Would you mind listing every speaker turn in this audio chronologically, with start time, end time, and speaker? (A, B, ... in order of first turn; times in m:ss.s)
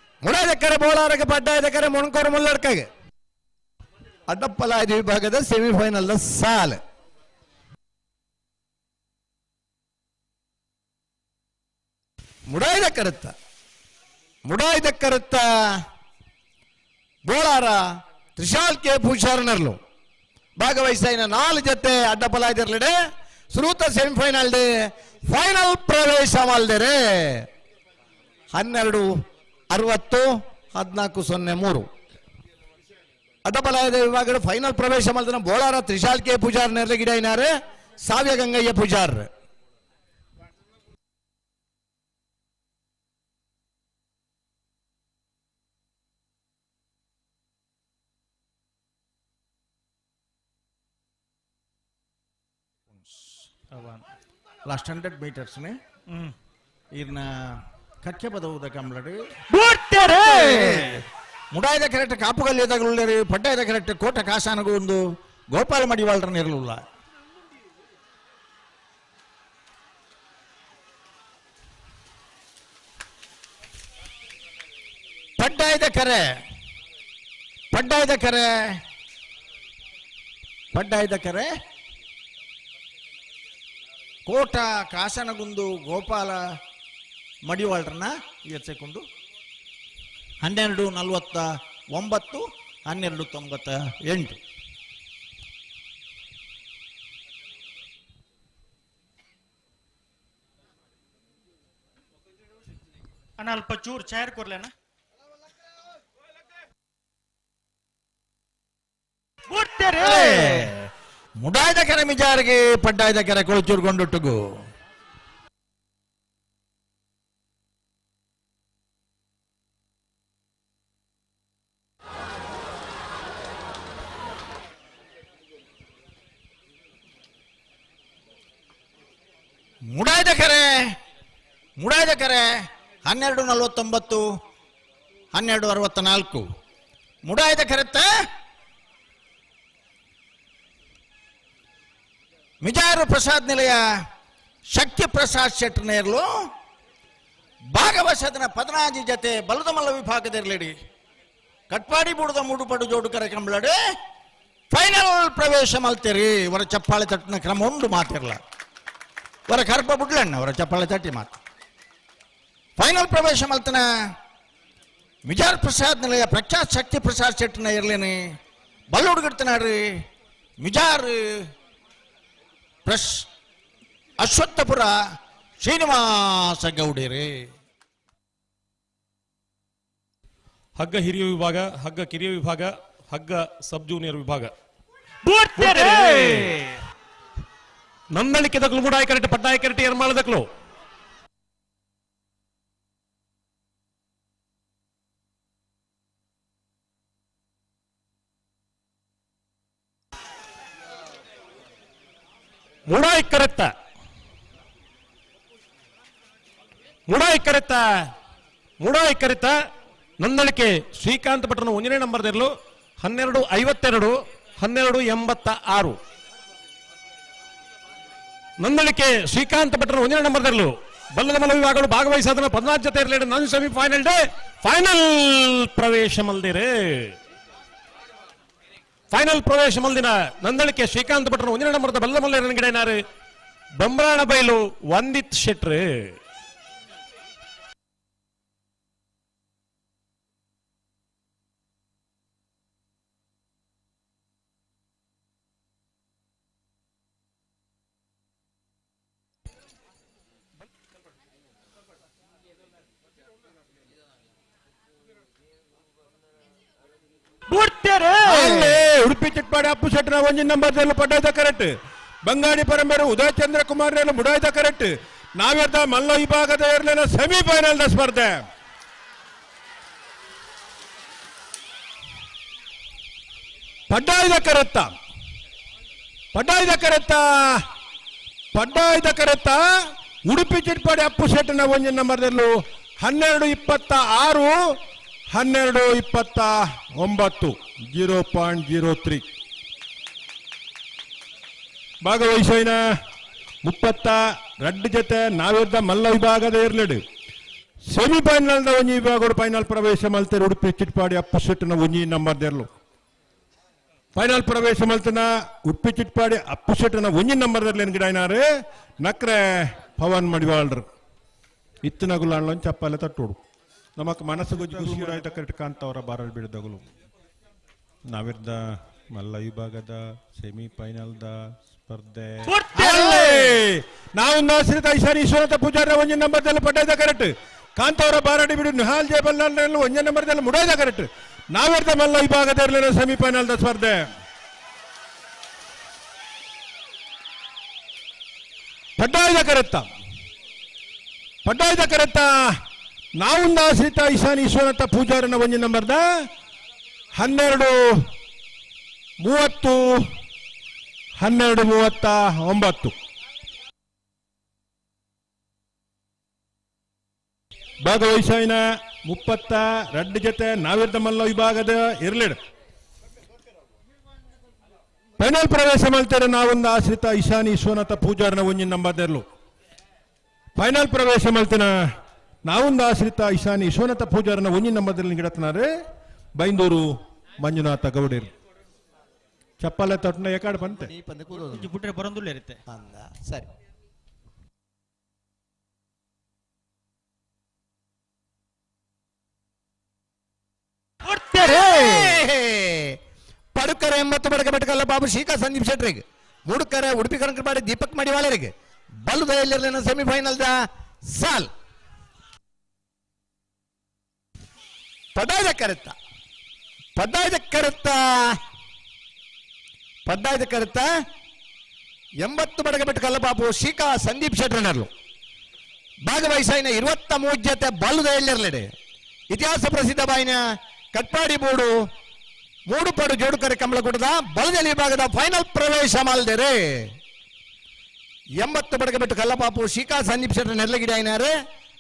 0:00.2-0:02.9 A
0:04.3-0:06.8 A
0:12.5-0:13.3 A
0:14.4-0:15.8 A
0:17.2-0:19.8 A
0:20.6-0:23.0 A
0:23.5-0:27.5 A
0:28.5-0:29.1 A
0:29.7-0:31.8 A
0:33.4-0:37.5 A
0:38.0-0:39.3 A
0:54.6-0:55.8 B
0:56.9-0:59.2 B
0:59.5-1:00.8 C
1:00.2-1:06.8 B
1:15.4-1:16.3 B
1:17.7-1:18.8 B
1:20.7-1:21.5 B
1:24.2-1:26.4 B
1:27.4-1:29.0 B
1:30.4-1:34.4 B
1:43.4-1:44.7 C
1:49.5-1:50.7 C
1:50.0-1:54.4 B
2:09.9-2:11.0 B
2:11.8-2:14.2 B
2:15.3-2:16.4 B
2:17.2-2:18.1 B
2:22.6-2:23.8 B
2:24.7-2:26.3 B
2:27.7-2:30.8 B
2:31.7-2:33.8 B
2:34.7-2:38.4 B
2:39.5-2:41.4 B
2:42.8-2:43.9 B
2:45.3-2:48.2 B
2:48.9-2:50.0 B
2:50.6-2:51.5 B
2:52.8-2:53.3 B
2:54.2-2:55.0 B
2:55.6-2:57.5 B
3:00.8-3:04.5 D
3:05.2-3:06.4 C
3:05.6-3:06.8 D
3:08.1-3:10.4 D
3:22.9-3:23.7 D
3:27.1-3:27.8 D
3:28.8-3:29.6 D
3:30.2-3:36.0 D
3:38.6-3:47.2 D
3:49.1-3:53.0 D
3:53.8-3:56.1 D
4:17.5-4:18.8 C
4:18.3-4:21.7 E
4:22.2-4:28.4 E
4:33.9-4:34.9 E
4:36.3-4:37.6 E
4:38.5-4:39.6 E
4:40.2-4:44.6 E
4:45.3-4:49.2 E
4:52.0-4:52.8 E
4:53.6-4:57.0 E
4:57.9-5:02.7 E
5:04.1-5:08.4 E
5:09.0-5:10.8 E
5:11.8-5:13.4 E
5:14.0-5:16.8 E
5:18.1-5:34.1 E
5:22.4-5:23.5 C
5:39.0-5:39.9 E
5:41.4-5:42.3 E
5:43.2-5:46.0 E
5:47.1-5:48.0 E
5:49.2-5:50.0 E
5:51.2-5:52.9 E
5:57.8-6:02.4 E
6:05.2-6:09.2 E
6:10.6-6:11.7 E
6:12.4-6:15.7 E
6:16.4-6:16.8 E
6:17.4-6:18.3 E
6:19.6-6:20.9 E
6:20.7-6:21.7 A
6:21.5-6:22.6 C
6:22.7-6:23.4 A
6:31.1-6:32.1 C
6:31.4-6:33.0 A
6:33.5-6:41.5 A
6:45.1-6:45.9 A
6:47.0-6:48.4 A
6:50.1-6:50.9 A
6:52.2-6:54.9 A
6:56.0-6:58.7 A
6:59.3-7:00.4 A
7:00.9-7:01.7 A
7:02.7-7:06.9 A
7:08.4-7:11.3 A